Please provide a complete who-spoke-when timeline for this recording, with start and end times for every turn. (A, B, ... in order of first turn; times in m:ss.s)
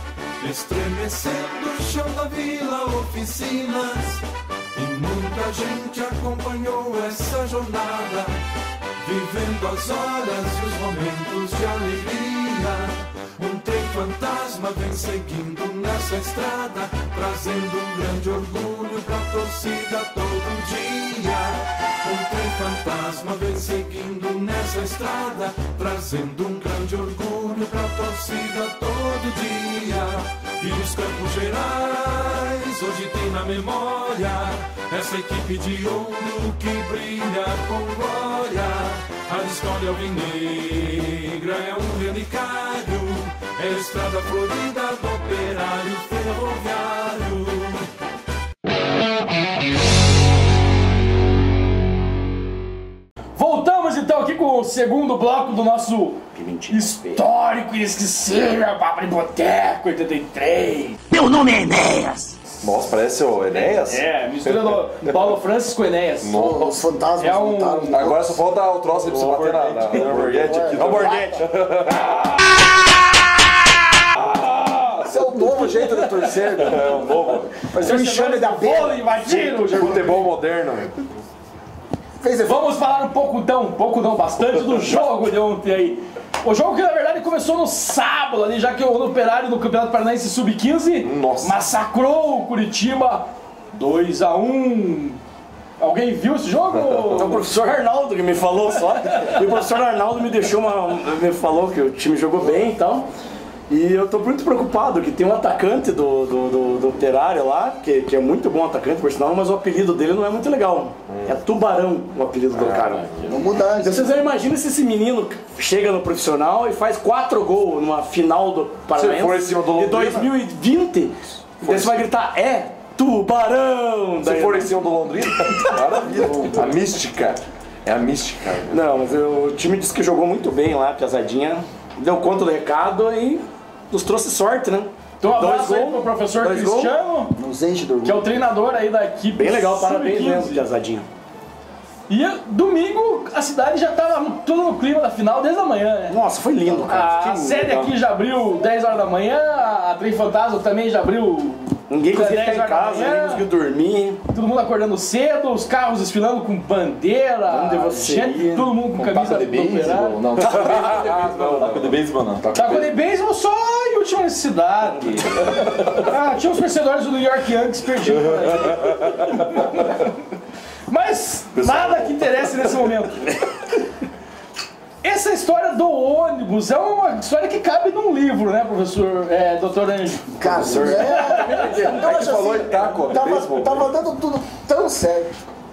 0:00.4-0:04.2 A
0:04.8-0:08.3 A
0:09.1-0:12.8 A
0:13.4-0:21.5 A
0:22.0-0:47.6 A
0:53.4-1:01.0 B
0:56.3-0:57.2 C
1:01.1-1:02.3 C
1:02.6-1:04.7 D
1:03.8-1:06.3 B
1:06.2-1:06.8 D
1:06.3-1:08.4 E
1:07.2-1:08.0 B
1:07.9-1:12.3 D
1:09.0-1:11.2 F
1:10.2-1:11.5 E
1:11.0-1:11.4 C
1:14.2-1:15.1 B
1:15.0-1:19.1 E
1:16.6-1:17.5 D
1:17.7-1:20.2 B
1:19.2-1:21.1 D
1:22.2-1:22.8 E
1:22.4-1:35.2 B
1:31.0-1:31.6 D
1:35.8-1:37.4 B
1:36.8-1:37.4 D
1:37.1-1:43.1 C
1:43.7-1:53.1 C
1:51.1-1:51.4 D
1:52.5-1:53.4 D
1:53.2-1:54.2 E
1:53.8-2:04.8 C
1:58.9-2:00.3 D
2:01.6-2:02.0 D
2:04.2-2:08.8 D
2:05.4-2:06.5 C
2:08.7-2:16.1 C
2:15.2-2:17.3 B
2:16.4-2:18.4 E
2:18.0-2:20.6 B
2:19.4-2:21.1 C
2:22.1-2:26.2 B
2:26.1-2:27.9 C
2:26.9-2:33.4 B
2:31.9-2:34.2 C
2:34.3-2:40.2 B
2:37.5-2:38.7 C
2:38.7-2:42.5 F
2:40.3-2:42.9 D
2:40.4-2:41.1 C
2:42.5-2:50.1 B
2:45.6-2:45.9 D
2:48.6-2:49.3 D
2:50.9-2:53.4 B
2:51.5-2:52.6 D
2:55.0-3:01.7 B
3:00.4-3:05.3 E
3:00.4-3:03.9 D